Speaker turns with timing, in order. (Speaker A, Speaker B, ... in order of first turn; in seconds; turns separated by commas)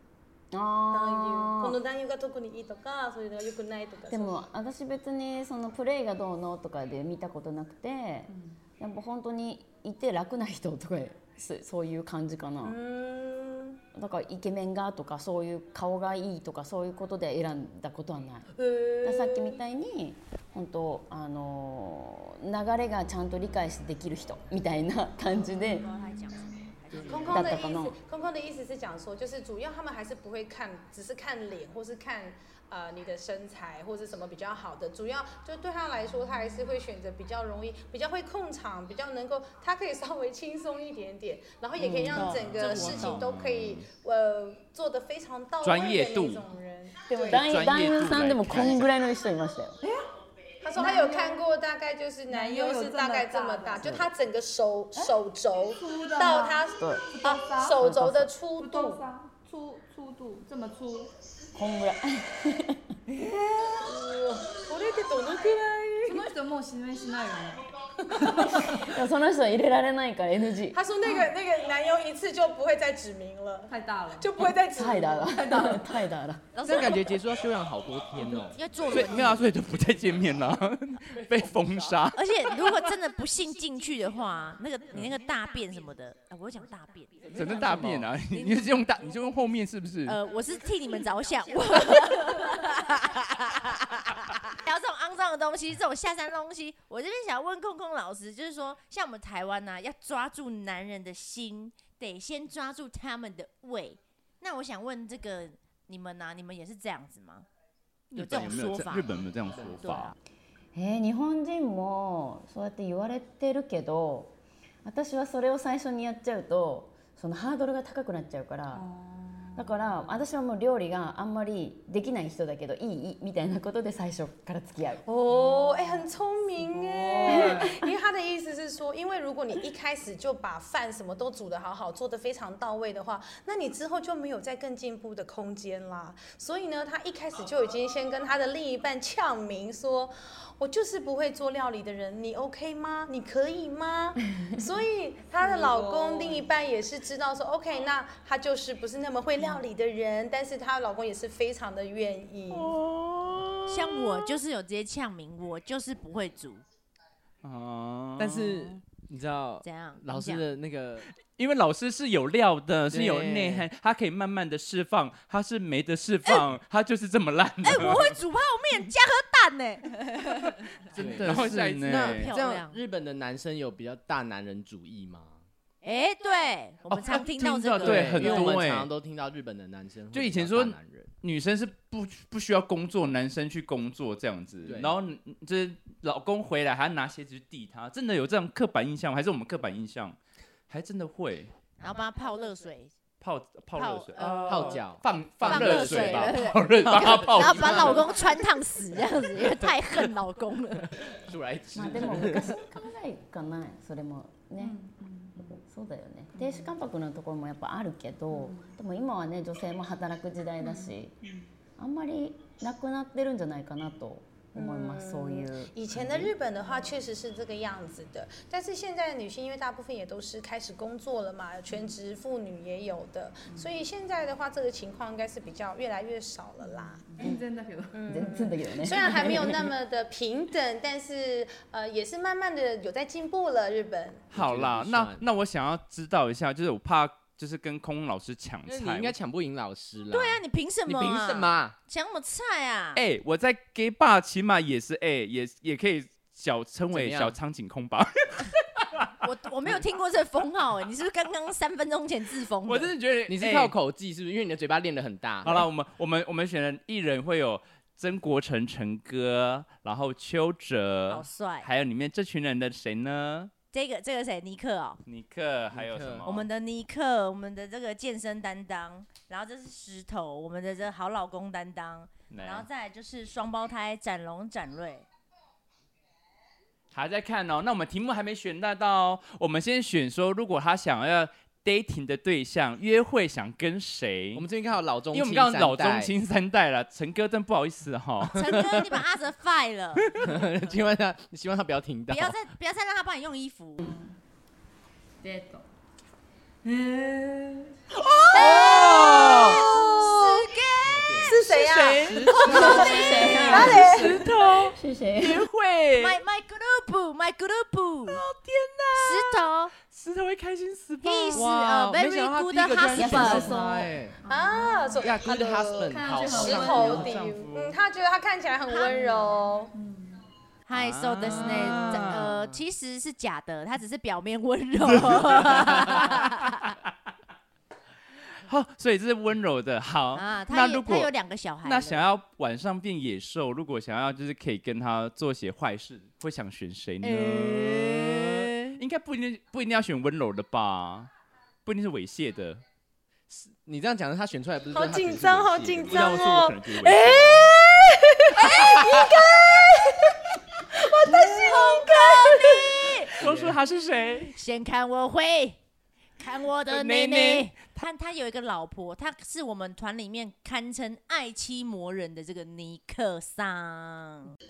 Speaker A: 0.5-1.8, Speaker B: 0.9-4.4, Speaker A: 4.1-12.8, Speaker C: 8.3-8.6, Speaker B: 12.6-13.8, Speaker A: 13.9-18.5, Speaker B: 18.6-19.6, Speaker A: 19.0-25.9, Speaker D: 25.6-27.7, Speaker B: 27.1-47.4, Speaker A: 27.3-28.0, Speaker A: 41.8-42.3, Speaker D: 42.1-43.2, Speaker E: 42.2-43.9, Speaker E: 45.6-46.5, Speaker A: 47.1-49.8, Speaker E: 47.3-48.9, Speaker C: 49.8-50.1, Speaker B: 50.6-59.1, Speaker C: 50.8-51.5, Speaker C: 52.3-54.0, Speaker C: 55.7-58.0, Speaker A: 56.8-57.1, Speaker A: 57.8-58.3, Speaker C: 58.5-61.1, Speaker A: 61.5-62.9, Speaker B: 63.2-66.3, Speaker C: 66.0-68.9, Speaker B: 68.1-68.5, Speaker A: 68.5-70.8, Speaker B: 70.7-75.8, Speaker C: 73.7-74.5, Speaker A: 74.7-76.5, Speaker C: 75.3-75.9, Speaker D: 76.5-77.2, Speaker F: 76.6-78.6, Speaker D: 78.4-79.5, Speaker E: 78.9-82.9, Speaker D: 82.1-87.5, Speaker F: 87.3-88.1, Speaker E: 87.3-90.2, Speaker D: 88.3-88.7, Speaker D: 90.1-107.5, Speaker E: 108.1-110.1, Speaker D: 108.1-109.1, Speaker D: 109.8-110.2, Speaker A: 110.8-118.9, Speaker C: 118.7-119.9, Speaker A: 119.5-125.1, Speaker B: 125.1-152.8, Speaker C: 125.3-127.8, Speaker A: 127.3-127.7, Speaker C: 145.4-146.5, Speaker E: 152.5-154.3, Speaker D: 153.7-156.6, Speaker E: 157.4-158.7, Speaker F: 158.2-161.1, Speaker D: 159.6-160.5, Speaker E: 161.3-168.2, Speaker F: 162.9-163.7, Speaker D: 167.6-170.6, Speaker E: 170.9-172.3, Speaker F: 170.9-175.4, Speaker D: 171.2-172.8, Speaker D: 175.8-178.6, Speaker E: 176.9-178.9, Speaker F: 177.8-181.1, Speaker E: 180.1-190.2, Speaker F: 184.7-184.9, Speaker E: 190.7-191.5, Speaker D: 191.8-192.9, Speaker E: 193.2-198.1, Speaker D: 193.7-194.8, Speaker F: 194.4-198.3, Speaker D: 195.4-201.0, Speaker F: 201.0-202.6, Speaker A: 201.7-204.8, Speaker C: 204.6-205.6, Speaker A: 205.5-211.2, Speaker C: 206.3-206.7, Speaker C: 208.3-208.8, Speaker C: 210.6-211.5, Speaker A: 211.8-215.7, Speaker B: 214.6-227.3, Speaker C: 226.6-229.5, Speaker B: 227.9-234.3, Speaker A: 228.1-229.7, Speaker F: 234.3-235.2, Speaker E: 234.3-239.2, Speaker F: 238.7-241.8, Speaker D: 240.1-243.0, Speaker E: 242.9-249.1, Speaker F: 246.9-247.4, Speaker D: 249.2-252.9, Speaker E: 252.7-253.8, Speaker F: 253.3-255.7, Speaker E: 255.4-263.5, Speaker D: 261.1-261.7, Speaker D: 263.7-265.0, Speaker E: 265.1-266.5, Speaker F: 265.7-266.3, Speaker D: 266.3-275.1, Speaker E: 272.3-272.7, Speaker E: 276.9-284.4, Speaker F: 284.3-286.1, Speaker E: 285.1-288.4, Speaker D: 288.4-290.2, Speaker F: 288.4-288.9, Speaker F: 290.2-292.4, Speaker D: 292.1-293.9, Speaker C: 293.8-294.1, Speaker C: 295.2-295.6, Speaker C: 296.6-297.8, Speaker B: 298.3-300.5, Speaker F: 298.3-299.6, Speaker D: 298.3-301.4, Speaker F: 300.9-302.6, Speaker B: 301.2-304.3, Speaker D: 302.4-303.7, Speaker A: 302.4-304.1, Speaker C: 302.5-303.7, Speaker E: 303.5-306.2, Speaker F: 303.6-304.0, Speaker A: 304.7-305.4, Speaker D: 306.0-308.2, Speaker E: 308.1-311.5, Speaker D: 309.0-309.7, Speaker D: 311.0-313.6, Speaker F: 311.3-314.2, Speaker A: 313.0-313.6, Speaker C: 313.0-315.3, Speaker B: 314.3-319.7, Speaker F: 315.0-317.3, Speaker C: 315.8-317.3, Speaker E: 317.2-317.8, Speaker D: 318.7-319.2, Speaker C: 318.9-320.2, Speaker D: 320.7-326.7, Speaker E: 320.7-322.4, Speaker F: 321.3-322.4, Speaker E: 324.9-326.8, Speaker E: 328.5-331.1, Speaker D: 330.1-332.0, Speaker E: 331.6-341.1, Speaker F: 337.0-338.8, Speaker E: 341.7-342.6, Speaker F: 343.3-346.2, Speaker B: 344.7-353.0, Speaker E: 345.9-347.6, Speaker D: 351.1-353.1, Speaker E: 353.1-354.4, Speaker F: 353.2-353.6, Speaker D: 354.3-355.6, Speaker D: 356.2-364.3, Speaker E: 356.7-357.6